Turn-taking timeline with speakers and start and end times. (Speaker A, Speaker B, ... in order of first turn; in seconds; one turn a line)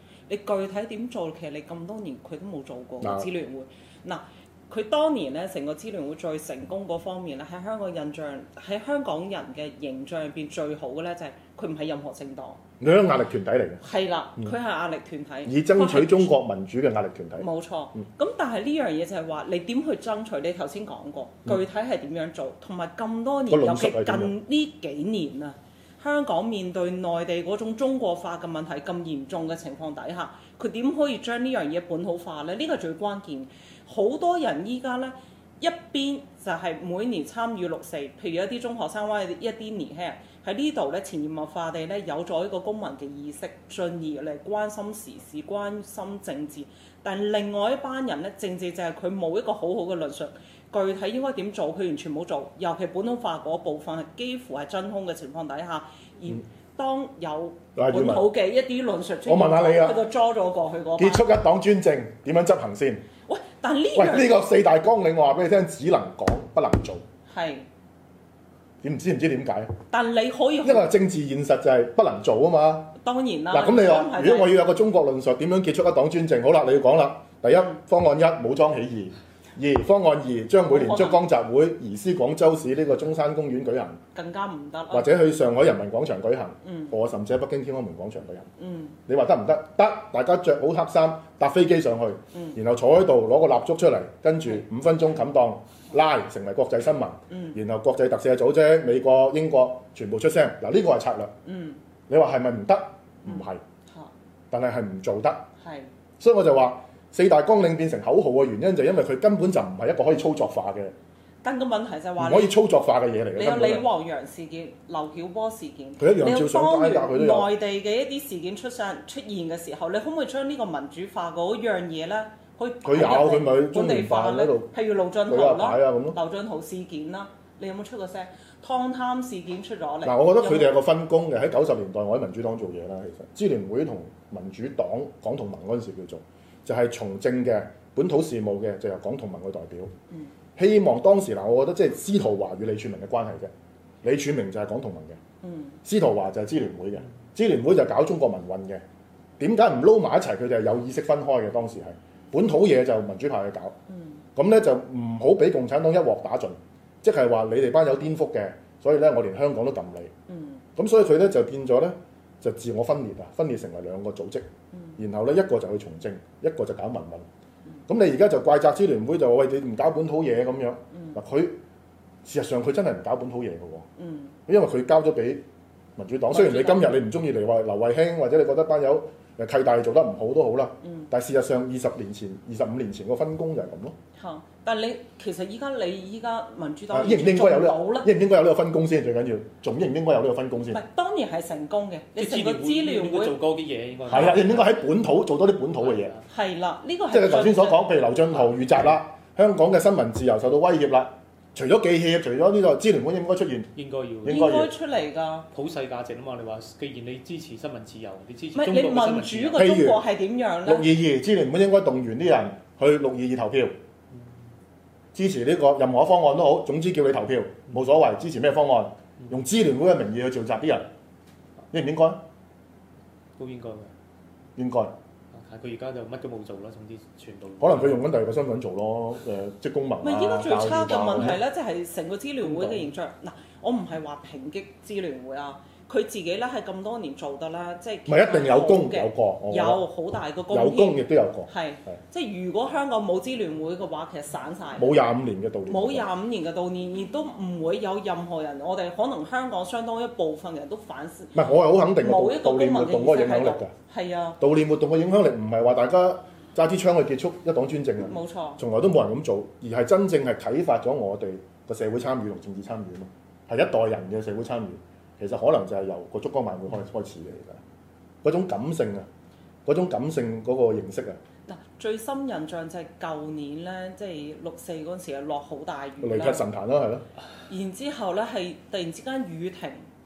Speaker A: 0.3-12.6
Speaker B: 3.0-3.3
Speaker B: 12.8-13.8
Speaker A: 13.8-16.3
Speaker B: 15.4-18.0
Speaker A: 17.4-61.3
Speaker B: 23.5-24.3
Speaker B: 57.8-58.3
Speaker B: 59.2-60.0
Speaker B: 61.0-63.0
Speaker A: 63.3-64.3
Speaker B: 63.9-67.0
Speaker A: 67.2-67.7
Speaker B: 68.8-69.7
Speaker A: 69.9-70.9
Speaker B: 70.6-72.9
Speaker A: 73.0-74.6
Speaker B: 73.5-84.0
Speaker A: 80.7-81.2
Speaker A: 84.1-85.1
Speaker B: 84.9-88.5
Speaker A: 86.6-86.9
Speaker A: 88.6-89.0
Speaker B: 89.1-101.3
Speaker A: 97.3-97.6
Speaker A: 101.4-101.8
Speaker B: 102.1-103.6
Speaker A: 103.2-104.1
Speaker B: 104.5-105.5
Speaker A: 105.6-105.9
Speaker B: 106.2-110.9
Speaker A: 111.4-112.5
Speaker B: 112.2-113.9
Speaker A: 113.3-130.7
Speaker B: 116.0-117.5
Speaker B: 122.8-124.7
Speaker B: 125.3-126.2
Speaker B: 130.0-139.9
Speaker B: 140.6-143.5
Speaker B: 144.0-145.2
Speaker A: 145.4-145.8
Speaker B: 145.8-148.8
Speaker B: 149.4-153.8
Speaker A: 153.9-154.2
Speaker B: 154.3-160.1
Speaker A: 160.3-160.6
Speaker B: 160.8-164.4
Speaker A: 164.7-165.0
Speaker B: 165.0-167.2
Speaker B: 167.9-171.6
Speaker A: 170.9-171.2
Speaker B: 172.2-173.9
Speaker A: 174.0-174.3
Speaker B: 174.5-175.4
Speaker B: 176.0-183.9
Speaker A: 176.3-176.9
Speaker A: 180.8-181.1
Speaker A: 184.1-188.1
Speaker B: 186.9-190.8
Speaker A: 190.7-193.4
Speaker C: 192.2-194.8
Speaker B: 194.1-196.1
Speaker C: 195.8-196.2
Speaker A: 196.3-197.9
Speaker B: 197.1-203.7
Speaker C: 203.7-204.5
Speaker B: 204.2-204.7
Speaker A: 204.2-205.5
Speaker C: 205.5-209.6
Speaker A: 208.5-210.9
Speaker B: 209.6-210.0
Speaker B: 210.6-213.8
Speaker B: 215.1-220.9
Speaker B: 221.7-222.2
Speaker C: 223.4-223.9
Speaker B: 224.6-224.9
Speaker C: 225.3-228.1
Speaker B: 227.6-231.4
Speaker A: 230.0-244.9
Speaker B: 232.4-232.8
Speaker B: 238.1-239.8
Speaker B: 240.5-241.9
Speaker B: 244.8-246.1
Speaker A: 245.7-251.4
Speaker B: 251.3-253.7
Speaker A: 252.0-254.4
Speaker B: 254.4-267.6
Speaker A: 258.0-258.6
Speaker B: 268.2-269.1
Speaker B: 269.6-271.2
Speaker A: 271.4-276.4
Speaker B: 276.0-277.1
Speaker A: 277.5-279.9